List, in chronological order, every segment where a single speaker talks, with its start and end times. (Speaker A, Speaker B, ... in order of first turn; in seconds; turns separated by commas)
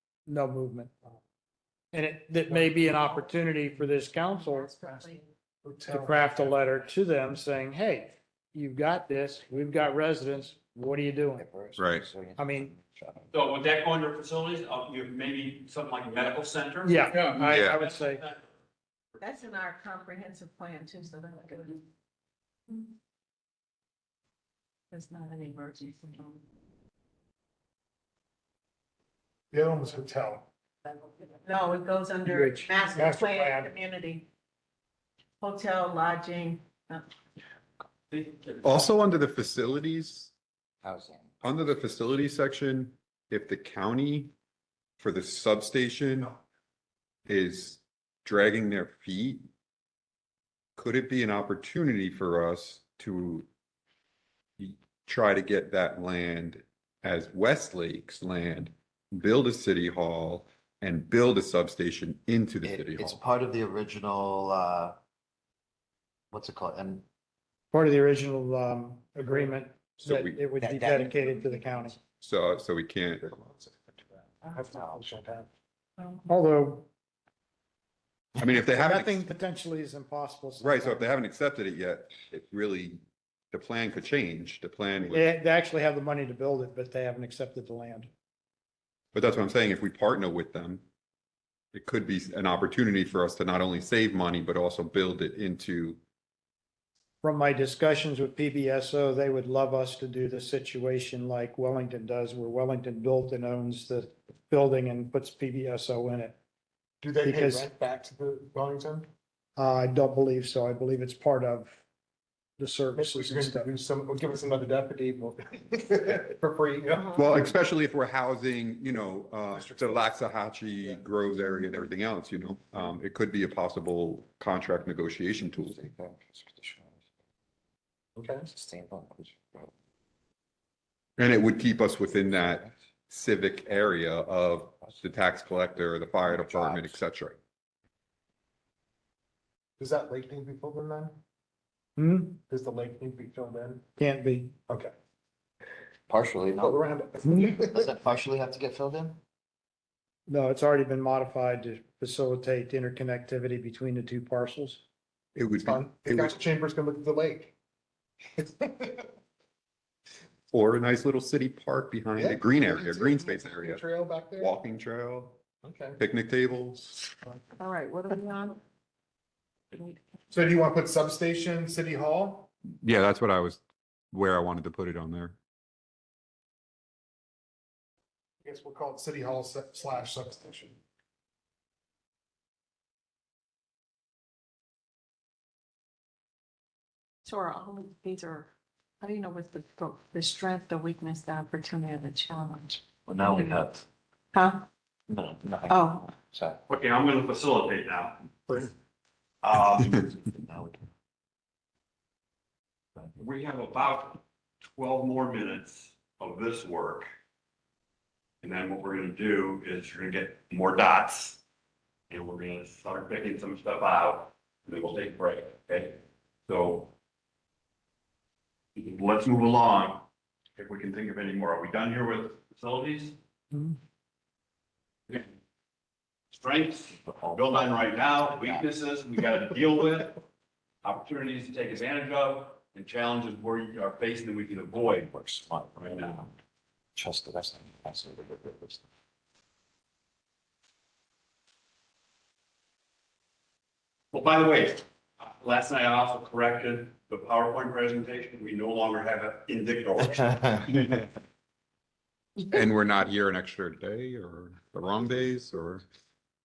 Speaker A: 0.3-1.1, Speaker A: 1.9-4.7, Speaker B: 4.3-5.3, Speaker C: 5.6-6.5, Speaker A: 5.9-11.5, Speaker D: 11.4-13.3, Speaker E: 11.8-12.1, Speaker A: 12.4-12.7, Speaker F: 13.3-18.3, Speaker A: 16.8-18.2, Speaker E: 17.4-17.8, Speaker B: 19.2-21.8, Speaker B: 24.9-26.4, Speaker C: 29.5-30.5, Speaker B: 30.9-34.3, Speaker A: 32.2-33.7, Speaker B: 35.4-37.1, Speaker F: 38.1-38.6, Speaker E: 38.6-40.3, Speaker D: 40.8-41.2, Speaker E: 41.4-44.3, Speaker E: 45.0-46.4, Speaker E: 47.3-49.5, Speaker E: 50.8-53.5, Speaker E: 54.6-63.2, Speaker D: 62.6-65.0, Speaker D: 66.3-67.0, Speaker A: 67.7-72.0, Speaker E: 70.0-70.4, Speaker D: 70.6-71.1, Speaker E: 72.2-73.2, Speaker C: 73.2-75.5, Speaker A: 76.3-76.9, Speaker E: 78.4-79.2, Speaker A: 78.5-81.1, Speaker E: 80.6-83.0, Speaker E: 83.5-85.3, Speaker A: 85.1-88.1, Speaker E: 89.1-90.8, Speaker E: 91.7-96.0, Speaker A: 97.2-106.4, Speaker C: 107.0-109.1, Speaker A: 107.2-107.7, Speaker A: 109.6-111.8, Speaker A: 112.6-113.7, Speaker C: 113.0-117.4, Speaker E: 117.1-125.8, Speaker C: 119.5-120.1, Speaker D: 125.7-126.9, Speaker C: 128.2-128.5, Speaker D: 128.5-129.7, Speaker E: 131.2-137.4, Speaker D: 136.5-137.0, Speaker C: 139.8-141.2, Speaker A: 142.0-142.4, Speaker C: 142.5-143.8, Speaker A: 144.0-144.5, Speaker D: 146.1-146.9, Speaker C: 146.6-147.8, Speaker D: 147.7-149.2, Speaker A: 150.3-154.8, Speaker E: 155.3-156.4, Speaker C: 155.6-157.5, Speaker C: 158.4-159.1, Speaker E: 160.5-163.8, Speaker C: 162.2-164.6, Speaker E: 164.4-165.4, Speaker C: 165.6-166.0, Speaker E: 166.0-167.1, Speaker B: 167.6-168.6, Speaker B: 169.7-170.0, Speaker C: 170.3-172.5, Speaker E: 172.8-175.4, Speaker C: 178.4-180.8, Speaker B: 187.2-188.5, Speaker B: 189.0-192.9, Speaker D: 193.0-193.8, Speaker B: 194.3-194.6, Speaker D: 195.1-196.6, Speaker B: 195.7-196.1, Speaker F: 196.7-198.3, Speaker F: 199.4-200.1, Speaker D: 200.0-200.8, Speaker F: 203.2-207.1, Speaker F: 208.4-211.4, Speaker F: 212.1-216.9, Speaker F: 218.8-220.0, Speaker F: 220.6-223.2, Speaker F: 226.3-230.2, Speaker F: 230.8-236.3, Speaker D: 235.1-236.2, Speaker D: 237.0-238.8, Speaker F: 244.1-251.0, Speaker E: 252.4-255.8